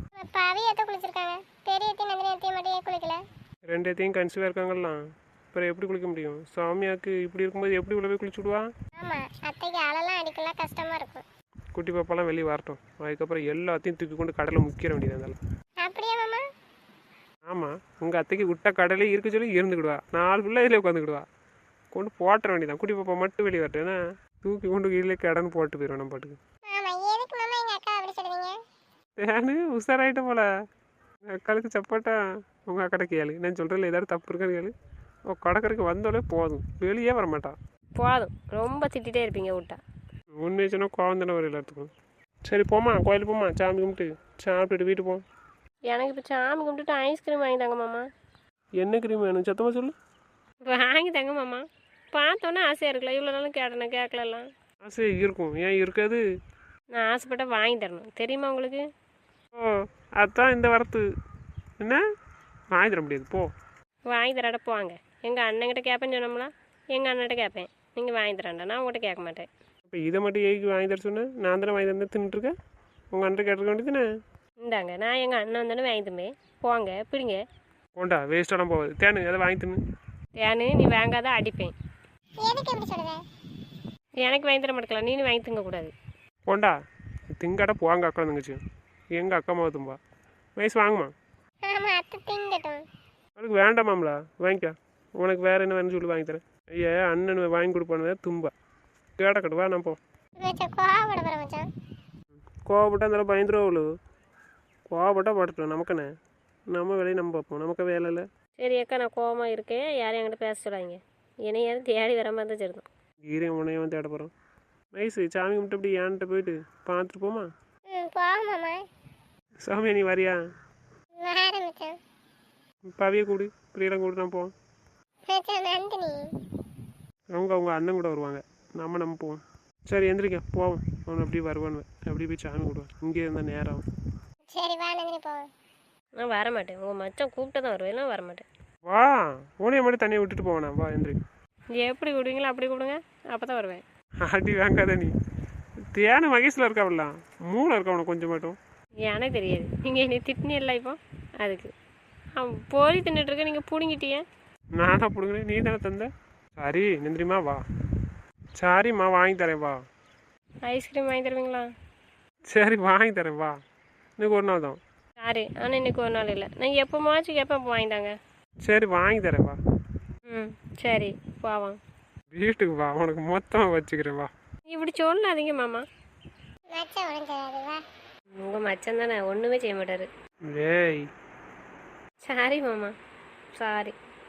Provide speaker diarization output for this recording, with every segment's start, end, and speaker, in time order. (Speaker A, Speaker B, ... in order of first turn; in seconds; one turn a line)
Speaker A: 0.1-3.2
Speaker B: 3.7-5.0
Speaker B: 5.5-8.7
Speaker A: 8.9-11.2
Speaker B: 11.7-15.4
Speaker A: 15.8-16.4
Speaker B: 17.5-21.3
Speaker B: 21.9-26.4
Speaker A: 26.7-28.6
Speaker B: 29.2-30.5
Speaker B: 31.3-34.7
Speaker B: 35.3-37.5
Speaker C: 38.0-39.8
Speaker B: 40.4-41.9
Speaker B: 42.4-45.2
Speaker C: 45.9-48.0
Speaker B: 48.8-49.9
Speaker C: 50.6-54.5
Speaker B: 54.8-56.2
Speaker C: 56.9-58.8
Speaker B: 59.5-61.0
Speaker B: 62.7-63.5
Speaker C: 64.1-69.5
Speaker B: 69.8-72.5
Speaker B: 73.1-74.0
Speaker C: 74.6-77.4
Speaker B: 78.0-79.8
Speaker C: 80.4-81.7
Speaker A: 82.4-83.2
Speaker C: 84.2-85.9
Speaker B: 86.5-86.8
Speaker B: 87.4-88.6
Speaker B: 89.1-90.0
Speaker B: 90.6-91.1
Speaker A: 91.7-92.8
Speaker B: 93.3-98.5
Speaker B: 99.2-100.0
Speaker A: 100.4-101.7
Speaker B: 102.6-103.9
Speaker B: 104.9-106.1
Speaker B: 106.7-108.2
Speaker C: 108.6-112.9
Speaker B: 113.3-114.3
Speaker B: 114.9-117.5
Speaker A: 117.9-118.8
Speaker B: 119.6-120.4
Speaker A: 121.2-121.9
Speaker B: 122.9-124.5
Speaker A: 125.3-126.3
Speaker B: 127.3-133.8
Speaker A: 134.5-135.4
Speaker C: 136.2-138.4
Speaker B: 138.8-141.2
Speaker C: 141.7-143.8
Speaker B: 144.2-145.1
Speaker B: 145.9-148.6
Speaker C: 149.0-151.7
Speaker C: 152.3-154.2
Speaker B: 154.8-157.6
Speaker B: 158.6-159.8
Speaker C: 160.6-161.7
Speaker B: 162.5-163.6
Speaker B: 164.2-164.8
Speaker C: 165.2-168.1
Speaker B: 168.6-169.6
Speaker C: 170.3-171.8
Speaker B: 172.3-174.3
Speaker C: 174.7-175.8
Speaker A: 176.7-177.8
Speaker C: 178.3-180.1
Speaker B: 180.5-181.1
Speaker C: 182.2-182.9
Speaker C: 183.5-183.9